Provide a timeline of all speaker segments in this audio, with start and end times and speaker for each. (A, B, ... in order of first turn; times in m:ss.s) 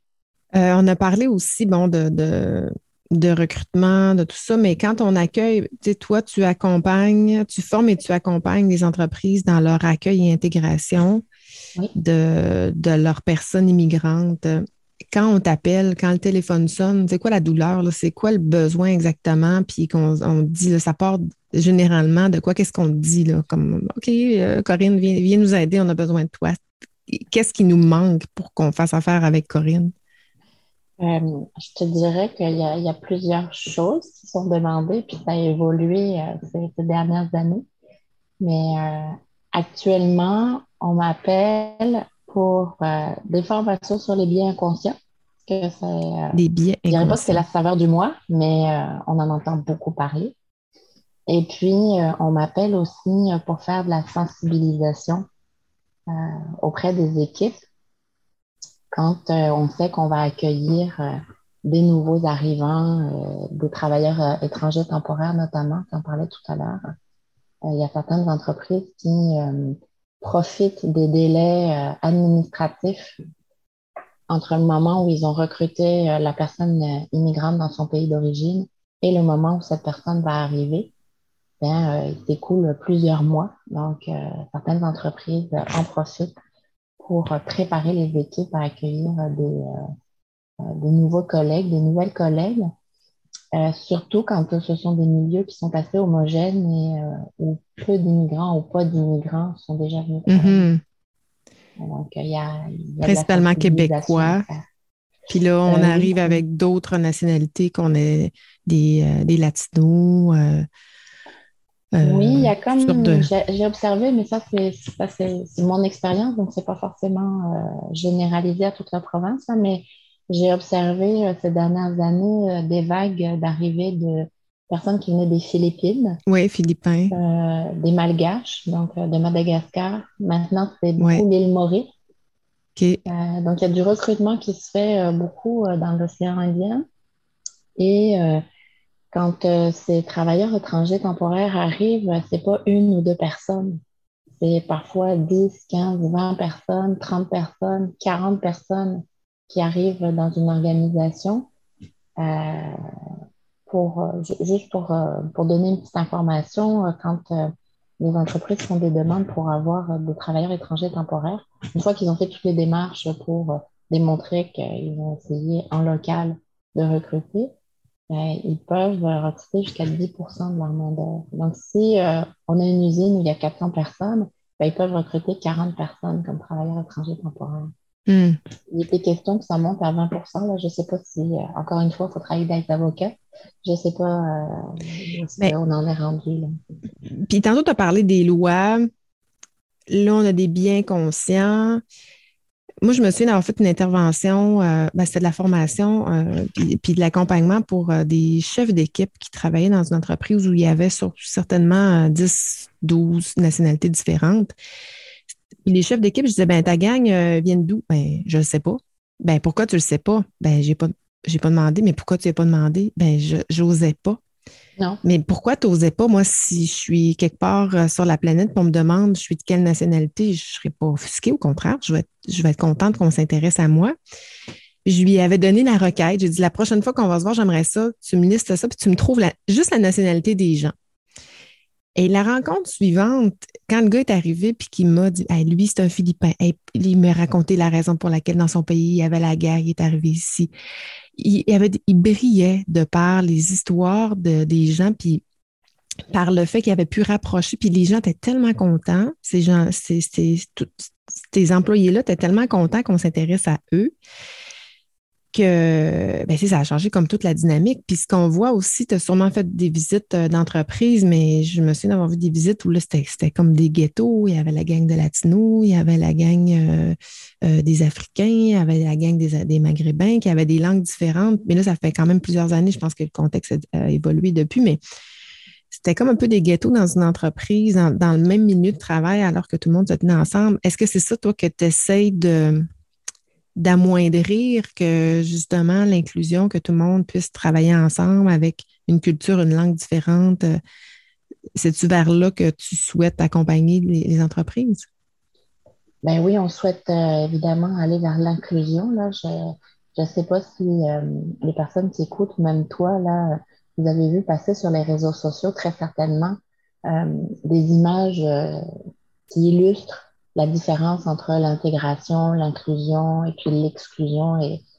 0:00.5-0:11.2 A
0:11.9-0:26.6 A
0:27.1-0:29.9 A
0:31.0-0:37.6 B
0:38.4-0:50.4 B
0:46.3-0:47.4 A
0:51.3-0:55.2 B
0:56.1-0:57.6 B
0:58.9-1:06.9 B
1:07.7-1:13.2 B
1:14.3-1:20.9 B
1:21.6-1:26.3 B
1:27.0-1:29.8 B
1:30.6-1:32.7 B
1:33.6-1:40.7 B
1:40.3-1:40.8 A
1:41.8-1:44.7 B
1:43.0-1:44.4 A
1:45.3-1:50.7 A
1:45.7-1:46.4 B
1:51.9-1:53.3 A
1:52.0-2:06.2 B
2:06.3-2:07.2 A
2:07.1-2:11.9 B
2:11.0-2:11.2 A
2:12.8-2:13.0 A
2:13.1-2:16.8 B
2:17.8-2:18.4 B
2:19.1-2:23.8 B
2:24.4-2:31.5 B
2:32.2-2:32.8 B
2:33.7-2:47.5 B
2:48.1-2:57.7 B
2:58.1-2:58.4 A
2:58.7-3:06.5 B
3:07.2-3:08.9 A
3:09.9-3:11.8 A
3:12.8-3:24.5 A
3:25.6-3:34.2 A
3:35.0-3:44.0 A
3:44.9-3:50.8 A
3:52.0-4:00.5 A
4:01.2-4:05.2 A
4:06.1-4:13.9 A
4:15.3-4:34.8 A
4:35.7-4:42.7 A
4:43.6-4:50.6 A
4:51.6-4:54.9 A
4:56.0-5:08.6 B
5:09.3-5:14.6 B